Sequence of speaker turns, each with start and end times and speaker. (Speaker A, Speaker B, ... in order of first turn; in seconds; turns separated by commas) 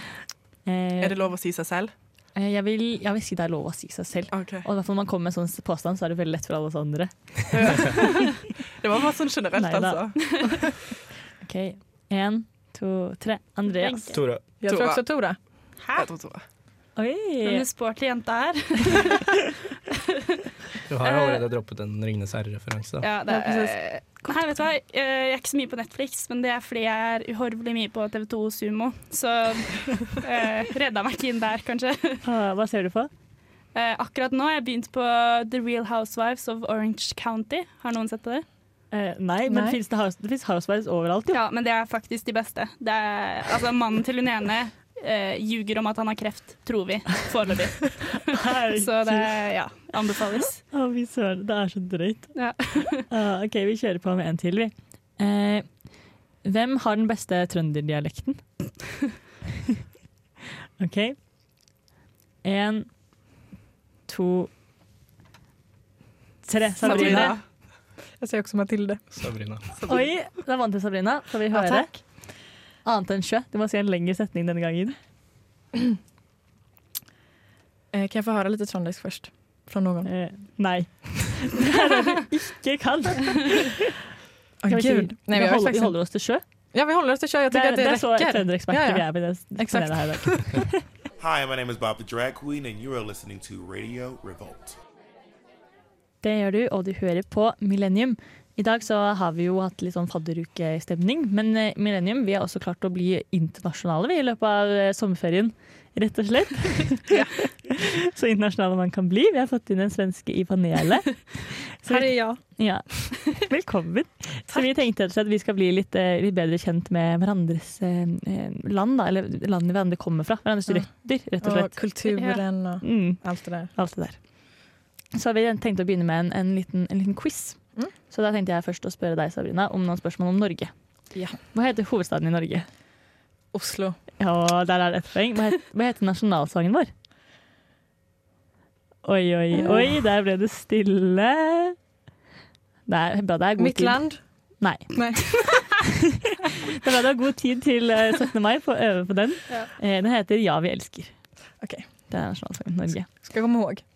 Speaker A: 0.7-1.2, Speaker B: 1.0-1.9, Speaker A: 2.4-8.0, Speaker B: 4.3-4.7, Speaker B: 7.5-10.8, Speaker A: 9.6-10.1, Speaker A: 11.4-14.2, Speaker C: 13.7-14.2, Speaker D: 14.1-14.4, Speaker E: 14.6-15.4, Speaker B: 14.7-15.0, Speaker C: 15.8-16.1, Speaker B: 15.9-16.4, Speaker A: 16.9-17.6, Speaker C: 17.4-19.3, Speaker D: 20.9-23.1, Speaker C: 21.0-21.4, Speaker C: 23.0-32.2, Speaker E: 23.3-23.7, Speaker A: 32.2-33.1, Speaker C: 33.7-38.5, Speaker A: 38.9-41.4, Speaker E: 39.5-39.8, Speaker C: 41.3-50.6, Speaker A: 48.4-49.3, Speaker A: 50.7-52.4, Speaker C: 52.3-53.1, Speaker A: 53.1-55.7, Speaker A: 56.4-58.4, Speaker A: 60.8-61.2, Speaker A: 62.4-62.9, Speaker A: 64.1-64.5, Speaker A: 66.4-67.3, Speaker B: 66.8-67.4, Speaker E: 66.8-67.3, Speaker E: 68.2-69.0, Speaker D: 69.1-69.6, Speaker A: 69.9-72.2, Speaker E: 71.5-72.0, Speaker A: 72.8-74.9, Speaker E: 77.9-80.1, Speaker A: 80.0-83.8, Speaker E: 84.6-86.0, Speaker A: 84.7-86.4, Speaker E: 86.7-90.5, Speaker A: 87.5-90.8, Speaker F: 91.2-94.8, Speaker A: 96.2-121.9, Speaker E: 111.9-112.4, Speaker E: 121.4-123.7, Speaker C: 122.1-122.4, Speaker A: 122.8-124.2, Speaker A: 125.1-130.7, Speaker A: 131.5-132.7, Speaker E: 133.5-134.0, Speaker A: 134.2-136.9, Speaker A: 139.0-141.8, Speaker E: 139.5-139.9, Speaker A: 142.9-144.0, Speaker E: 143.6-144.2, Speaker A: 144.6-145.5, Speaker E: 144.9-145.6, Speaker A: 146.7-151.1, Speaker E: 151.6-151.8, Speaker A: 152.1-153.1, Speaker E: 153.2-153.8